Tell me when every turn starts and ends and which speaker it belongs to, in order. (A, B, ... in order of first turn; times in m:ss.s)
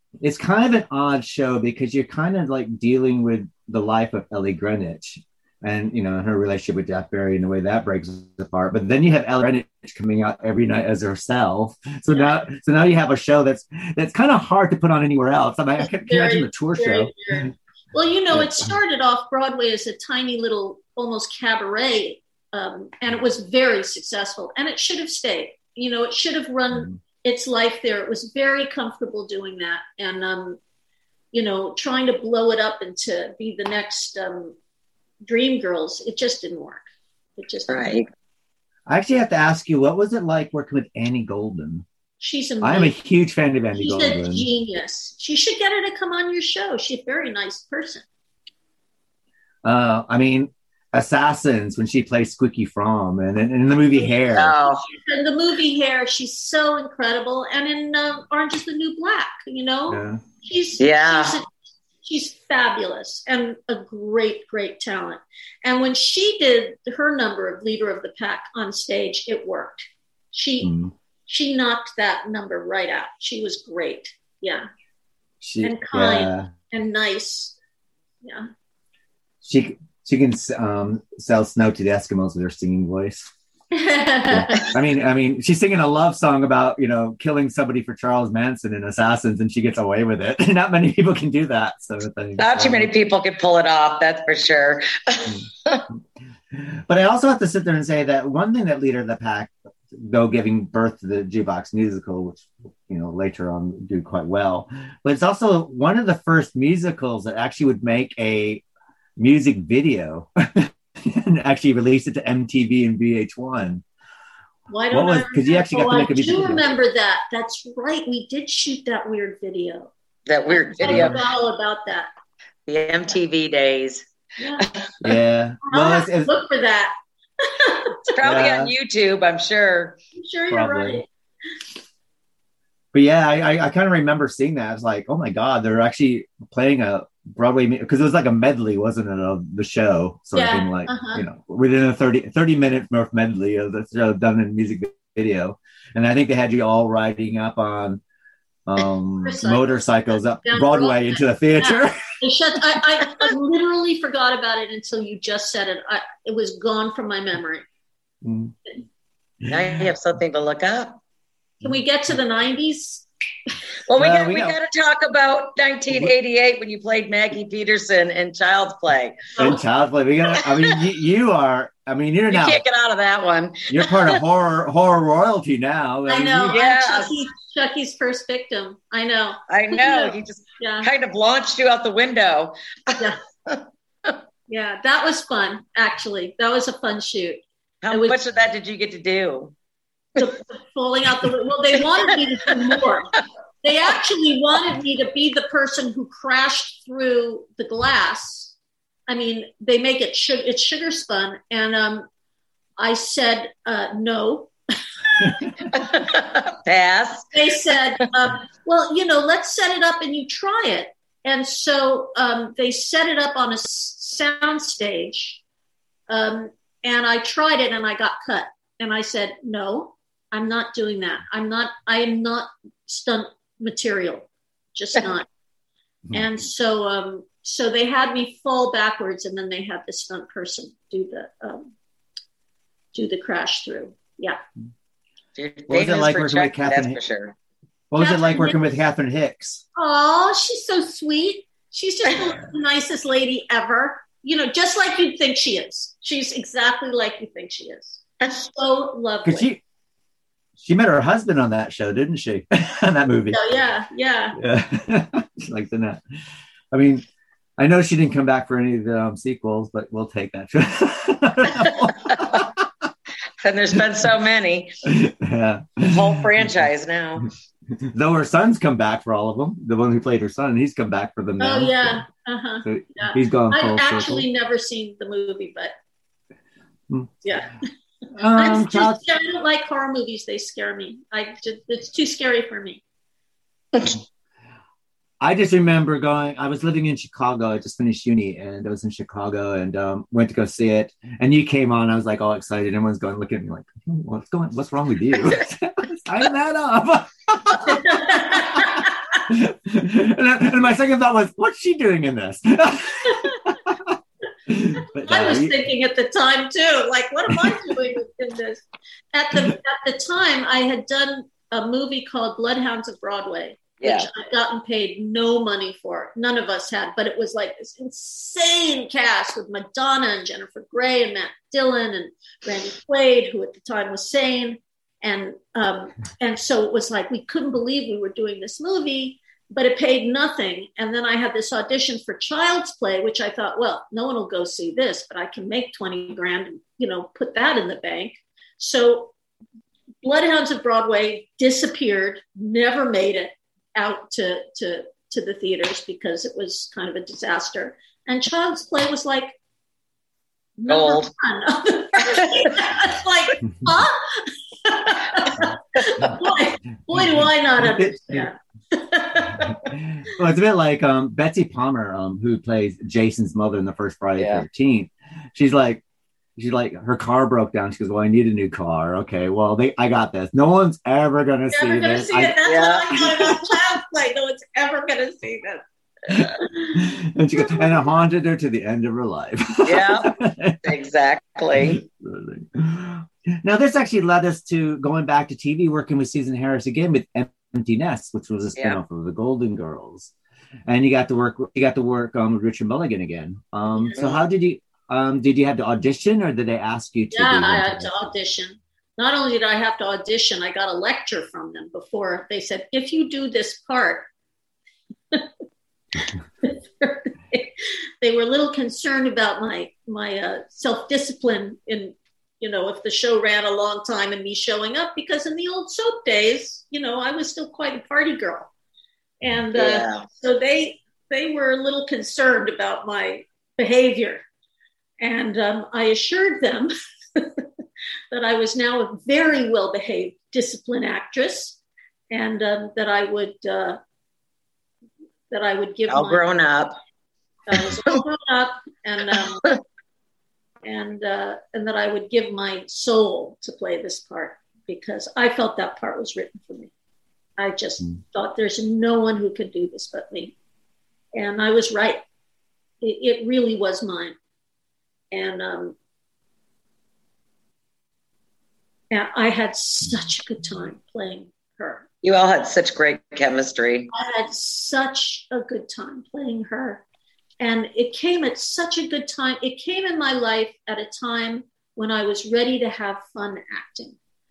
0:00.2-0:17.5 A
0:15.8-0:30.6 B
0:18.3-0:18.7 A
0:26.7-0:27.0 A
0:31.3-0:34.6 B
0:35.3-0:36.8 B
0:37.4-0:38.0 B
0:37.7-0:38.1 C
0:38.9-0:41.9 A
0:42.2-0:42.9 B
0:42.6-0:44.5 A
0:43.7-0:48.0 B
0:49.6-0:54.6 A
0:54.3-0:54.8 C
0:54.9-1:01.5 B
0:59.9-1:00.2 A
1:00.8-1:01.4 C
1:02.0-1:10.7 B
1:10.6-1:10.9 A
1:11.3-1:14.7 B
1:15.4-1:16.5 A
1:15.6-1:17.6 B
1:18.2-1:18.5 B
1:19.4-1:23.3 A
1:23.7-1:24.8 B
1:24.3-1:32.9 A
1:32.4-1:35.8 C
1:36.5-1:48.6 A
1:49.2-1:53.8 A
1:54.7-1:59.9 B
1:54.9-1:56.6 A
2:00.3-2:01.2 C
2:00.5-2:02.1 B
2:00.8-2:01.2 A
2:02.7-2:04.0 C
2:04.4-2:04.7 B
2:04.6-2:04.9 C
2:05.0-2:06.3 A
2:05.6-2:08.0 B
2:08.1-2:10.0 C
2:08.2-2:08.7 A
2:10.2-2:11.1 B
2:10.5-2:11.0 A
2:12.9-2:28.0 A
2:20.4-2:21.2 B
2:28.7-2:32.0 A
2:29.2-2:29.8 B
2:30.4-2:37.7 B
2:38.2-2:38.6 A
2:39.5-2:41.0 C
2:41.6-2:43.1 B
2:43.9-2:49.3 C
2:44.0-2:44.6 A
2:49.4-2:49.6 B
2:49.4-2:52.6 A
2:50.4-2:50.8 C
2:52.3-2:54.2 C
2:53.7-2:56.6 A
2:56.1-3:00.9 B
2:56.5-2:57.1 C
2:59.5-3:04.2 C
3:04.5-3:08.2 B
3:07.8-3:09.5 C
3:10.2-3:13.1 B
3:13.6-3:18.5 B
3:19.1-3:22.1 B
3:22.8-3:24.5 B
3:25.0-3:25.5 B
3:25.7-3:27.3 C
3:27.3-3:35.4 B
3:36.1-3:45.3 B
3:46.1-3:51.7 B
3:52.9-3:54.4 B
3:55.4-3:57.4 C
3:55.7-3:57.0 A
3:57.9-3:59.6 A
3:58.0-3:58.6 B
3:59.8-4:09.5 B
4:09.2-4:09.6 A
4:10.6-4:13.4 A
4:13.3-4:14.4 B
4:14.4-4:16.0 A
4:16.7-4:17.0 A
4:17.6-4:22.6 A
4:23.4-4:24.7 C
4:24.8-4:26.4 A
4:25.9-4:27.3 C
4:27.8-4:32.0 A
4:31.4-4:35.7 B
4:32.6-4:34.3 A
4:36.9-4:37.1 A
4:37.2-4:37.6 B
4:38.1-4:39.0 A
4:38.4-4:42.8 B
4:45.2-5:04.0 A
4:57.6-4:59.2 B
5:04.5-5:05.6 A
5:05.0-5:39.1 B
5:13.8-5:14.1 C
5:40.0-5:49.4 B
5:50.6-5:59.5 B
5:50.7-5:51.1 C
5:55.8-5:56.1 C
5:56.9-5:58.3 A
5:59.5-6:05.8 A
6:04.2-6:04.4 C
6:06.4-6:12.4 A
6:11.5-6:15.6 B
6:12.4-6:13.4 C
6:16.1-6:20.6 A
6:16.2-6:16.8 B
6:17.4-6:17.8 B
6:19.6-6:21.8 C
6:21.6-6:30.1 A
6:30.7-6:37.9 A
6:34.0-6:34.2 C
6:37.1-6:44.1 B
6:46.4-6:58.5 B
6:59.2-7:04.2 B
6:59.5-7:00.1 C
7:05.0-7:07.4 B
7:08.1-7:11.6 B
7:12.1-7:13.8 B
7:15.3-7:16.3 B
7:15.9-7:16.8 C
7:17.5-7:19.5 B
7:20.6-7:26.7 B
7:27.4-7:30.4 B
7:31.1-7:32.0 B
7:32.8-7:34.1 B
7:35.1-7:35.8 B
7:38.9-7:41.8 B
7:42.0-7:43.9 C
7:43.9-7:46.8 B
7:47.4-7:54.0 B